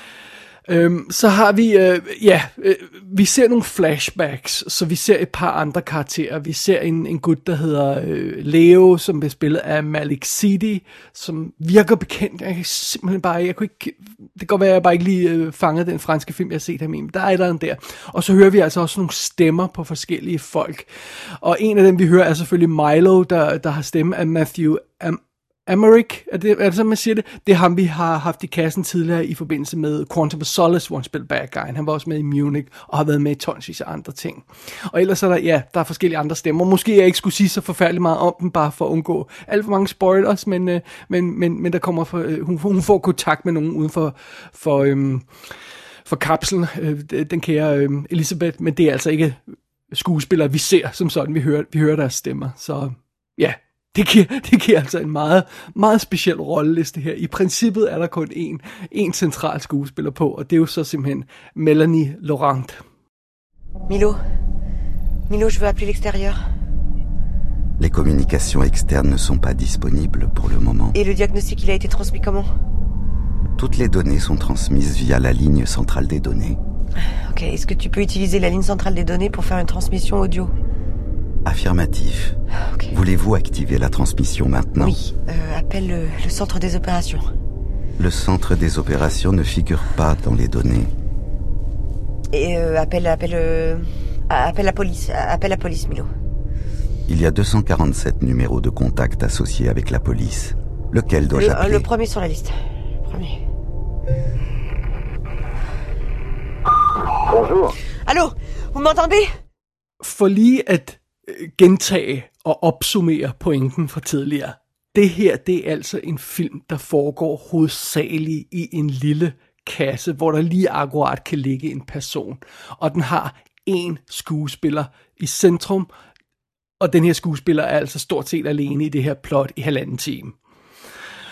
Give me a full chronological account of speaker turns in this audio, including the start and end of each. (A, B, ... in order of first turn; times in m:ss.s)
0:00.7-0:45.3 A
0:46.0-0:49.4 A
0:49.9-1:02.8 A
1:03.9-1:04.2 B
1:05.3-1:06.4 B
1:07.8-1:11.0 C
1:10.9-1:12.5 B
1:13.6-1:16.6 C
1:17.0-1:20.5 B
1:21.4-1:22.4 C
1:22.7-1:22.9 B
1:22.9-1:25.0 C
1:24.8-1:27.3 B
1:28.0-1:30.9 C
1:32.3-1:36.1 B
1:37.1-1:41.9 C
1:41.3-1:43.4 B
1:47.3-1:49.3 B
1:50.0-2:05.9 A
2:06.8-2:10.4 A